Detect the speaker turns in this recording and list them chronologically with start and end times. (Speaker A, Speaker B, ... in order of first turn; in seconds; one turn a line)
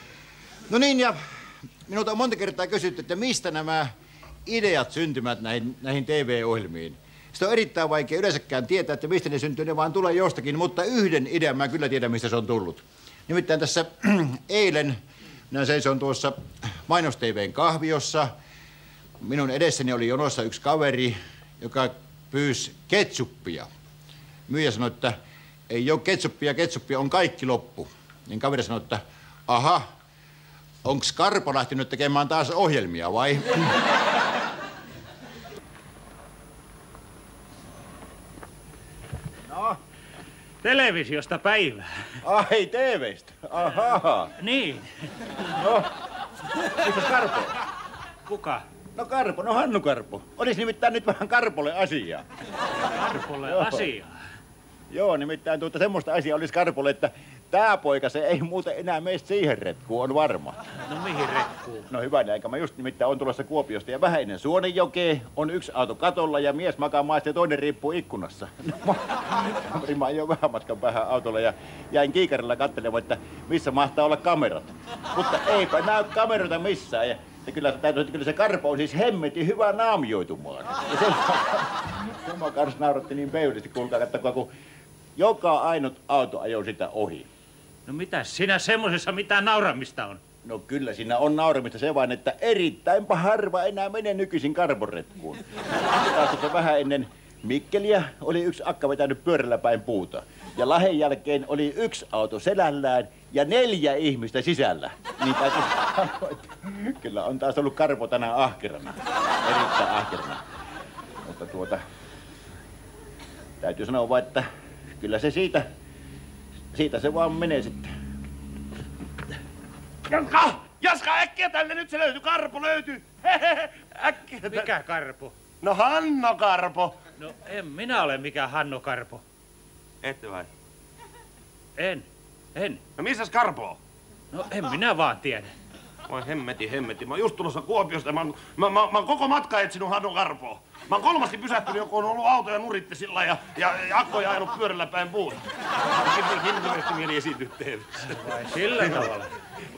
Speaker A: 0.7-1.2
Speaker A: 1.9-3.9
Speaker A: 4.5-15.0
Speaker A: 15.5-18.3
Speaker A: 19.2-23.7
Speaker A: 24.5-25.1
Speaker A: 25.7-29.8
Speaker A: 30.8-33.8
Speaker A: 39.5-39.8
Speaker B: 40.6-41.9
Speaker A: 42.2-44.3
Speaker B: 44.4-44.9
Speaker A: 45.5-45.9
Speaker A: 46.6-47.5
Speaker B: 48.3-48.6
Speaker A: 49.0-52.2
Speaker B: 52.9-54.2
Speaker A: 53.4-53.9
Speaker A: 54.9-60.6
Speaker B: 60.9-61.9
Speaker A: 61.9-84.5
Speaker A: 85.2-87.3
Speaker B: 87.9-90.2
Speaker A: 90.4-110.4
Speaker A: 111.2-111.8
Speaker A: 113.6-114.5
Speaker A: 115.0-115.7
Speaker A: 116.7-117.9
Speaker C: 120.1-124.7
Speaker B: 124.4-125.3
Speaker C: 125.6-127.0
Speaker B: 127.2-129.2
Speaker C: 130.0-130.5
Speaker B: 131.8-132.8
Speaker C: 133.0-133.8
Speaker B: 134.3-135.5
Speaker C: 136.1-148.2
Speaker B: 148.1-149.3